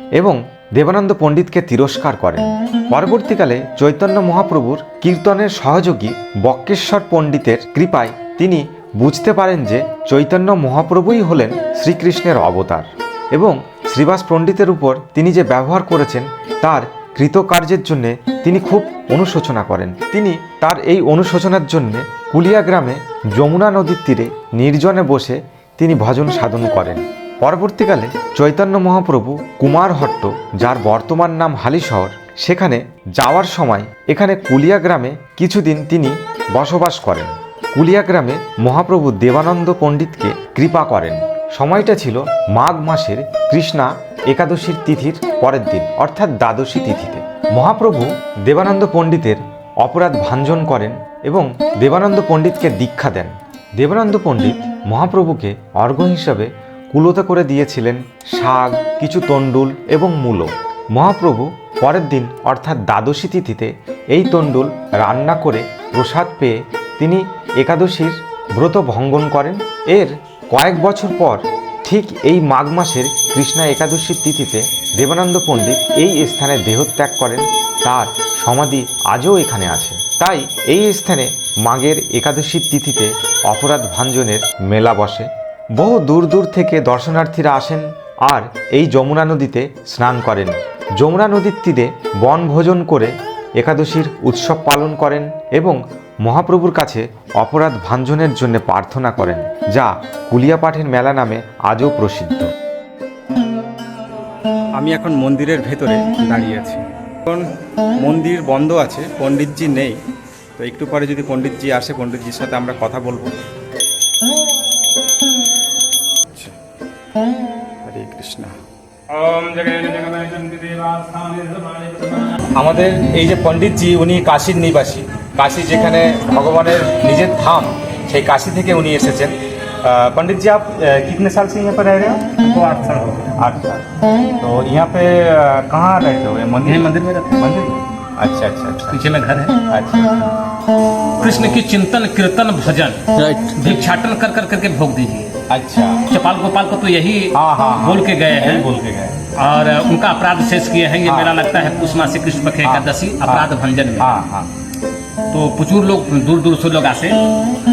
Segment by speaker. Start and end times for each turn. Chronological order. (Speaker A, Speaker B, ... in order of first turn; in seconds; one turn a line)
Speaker A: 0.2-102.5
Speaker B: 104.8-107.4
Speaker B: 108.0-110.0
Speaker B: 110.6-113.3
Speaker B: 117.8-118.5
Speaker B: 119.1-121.7
Speaker C: 121.7-122.2
Speaker B: 122.3-132.5
Speaker C: 132.4-133.4
Speaker B: 133.3-133.8
Speaker B: 134.4-139.1
Speaker C: 136.6-137.5
Speaker C: 138.8-139.6
Speaker B: 139.7-140.3
Speaker C: 141.2-145.4
Speaker B: 141.2-141.6
Speaker B: 145.5-146.0
Speaker C: 146.0-148.7
Speaker B: 147.3-149.3
Speaker C: 149.3-154.2
Speaker B: 151.0-151.3
Speaker B: 152.6-154.5
Speaker C: 155.3-157.2